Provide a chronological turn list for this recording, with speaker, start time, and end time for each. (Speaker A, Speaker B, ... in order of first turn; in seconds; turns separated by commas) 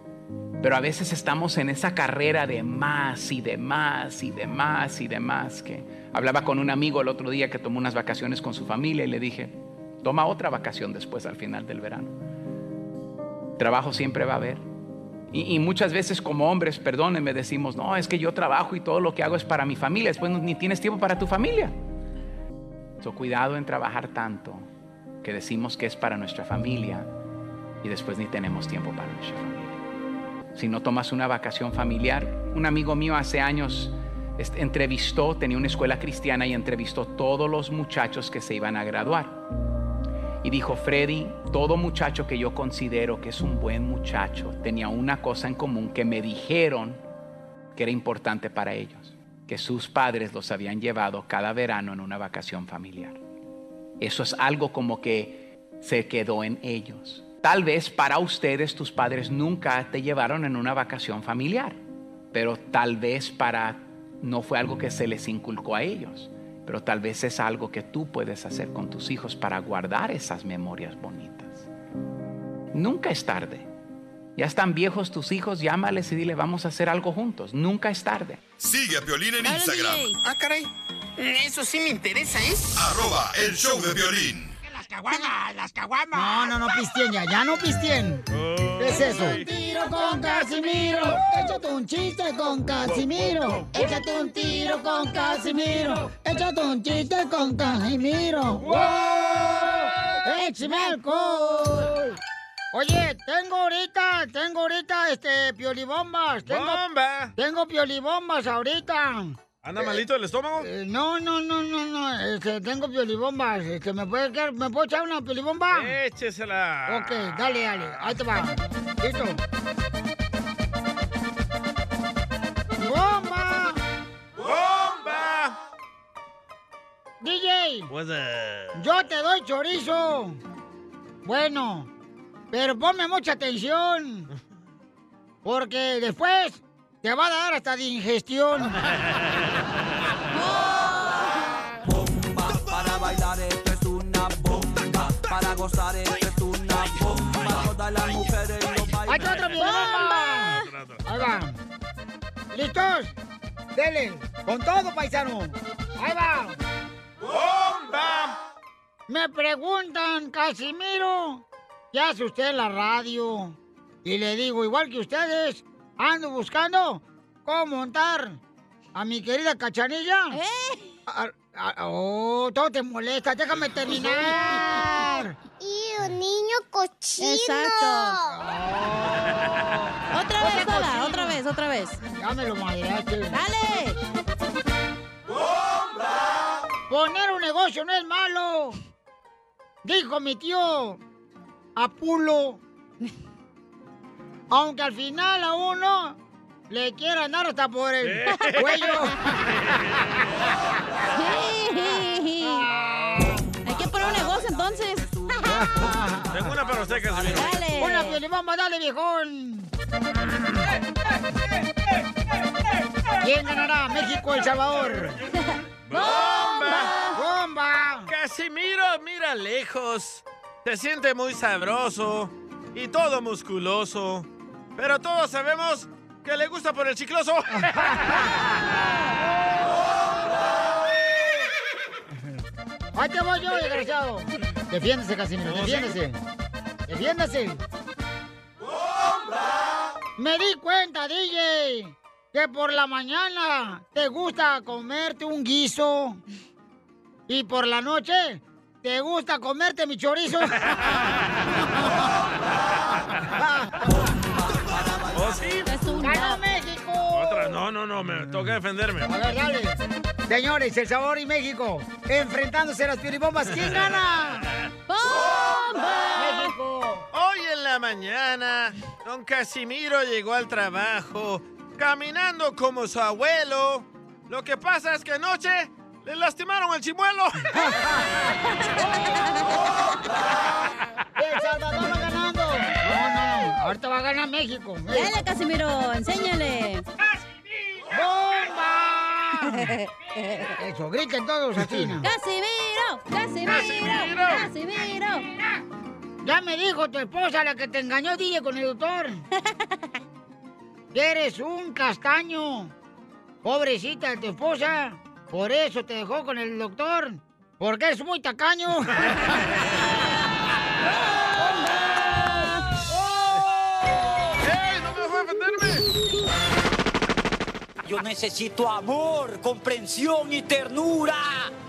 Speaker A: 0.6-12.2, Speaker A: 13.6-14.6, Speaker A: 15.3-21.7, Speaker A: 23.0-24.7, Speaker A: 25.2-27.1, Speaker A: 27.8-29.8, Speaker A: 30.5-39.4, Speaker A: 40.4-47.0, Speaker A: 47.7-53.2, Speaker A: 54.0-61.8, Speaker A: 62.3-71.7, Speaker A: 72.7-73.7, Speaker A: 74.3-78.4, Speaker B: 78.6-80.1, Speaker C: 79.4-80.2, Speaker B: 82.7-84.5, Speaker D: 86.1-88.2, Speaker E: 88.3-89.5, Speaker D: 88.8-102.2, Speaker C: 93.8-96.0, Speaker C: 100.4-101.0, Speaker D: 102.7-106.8, Speaker E: 106.5-107.3, Speaker D: 107.3-110.0, Speaker E: 109.6-110.7, Speaker D: 110.6-115.9, Speaker E: 115.7-118.1, Speaker D: 116.9-119.4, Speaker D: 122.8-123.8, Speaker E: 124.4-125.5, Speaker D: 127.2-127.9, Speaker E: 127.9-128.9, Speaker D: 128.7-130.4, Speaker D: 131.2-131.9, Speaker D: 132.5-134.3, Speaker D: 135.4-138.8, Speaker C: 140.3-141.6, Speaker F: 141.8-149.4, Speaker D: 149.1-151.6, Speaker C: 149.6-150.6, Speaker E: 149.6-151.0, Speaker D: 152.5-153.2, Speaker D: 153.7-156.6, Speaker E: 157.3-158.3, Speaker D: 159.1-168.4, Speaker D: 168.9-170.4, Speaker C: 170.3-171.0, Speaker D: 171.1-175.3, Speaker G: 175.6-178.3, Speaker C: 177.2-178.2, Speaker D: 178.3-179.8, Speaker C: 180.1-182.0, Speaker D: 180.4-181.4, Speaker D: 182.0-183.4, Speaker C: 183.3-184.0, Speaker D: 186.9-188.8, Speaker D: 189.8-191.0, Speaker D: 191.8-192.6, Speaker D: 194.5-196.2, Speaker D: 196.7-200.0, Speaker E: 198.0-199.0, Speaker E: 199.5-200.2, Speaker C: 201.1-202.7, Speaker C: 203.6-205.6, Speaker F: 203.6-207.9, Speaker D: 205.5-206.6, Speaker E: 206.3-207.5, Speaker C: 207.3-208.2, Speaker D: 207.8-209.7, Speaker D: 213.2-215.2, Speaker C: 215.3-217.2, Speaker E: 215.9-216.9, Speaker D: 217.1-218.1, Speaker E: 218.1-228.1, Speaker D: 232.9-236.2, Speaker E: 235.4-235.9, Speaker D: 236.9-237.6, Speaker D: 240.2-246.2, Speaker D: 247.3-250.7, Speaker D: 253.2-253.9, Speaker F: 254.6-255.4, Speaker E: 255.1-255.7, Speaker C: 255.6-256.4, Speaker D: 256.0-257.6, Speaker E: 257.1-259.1, Speaker D: 259.0-264.5, Speaker E: 263.6-263.9, Speaker C: 264.9-266.5, Speaker D: 266.1-267.1, Speaker E: 267.1-277.5, Speaker C: 278.5-279.8, Speaker D: 281.2-285.2, Speaker C: 284.9-286.9, Speaker D: 287.9-289.7, Speaker C: 289.4-290.6, Speaker D: 290.6-292.1, Speaker C: 292.0-295.2, Speaker E: 293.4-294.5, Speaker D: 296.2-299.2, Speaker D: 300.9-302.7, Speaker D: 303.4-309.2, Speaker C: 312.1-312.6, Speaker E: 314.4-315.9, Speaker H: 317.8-321.5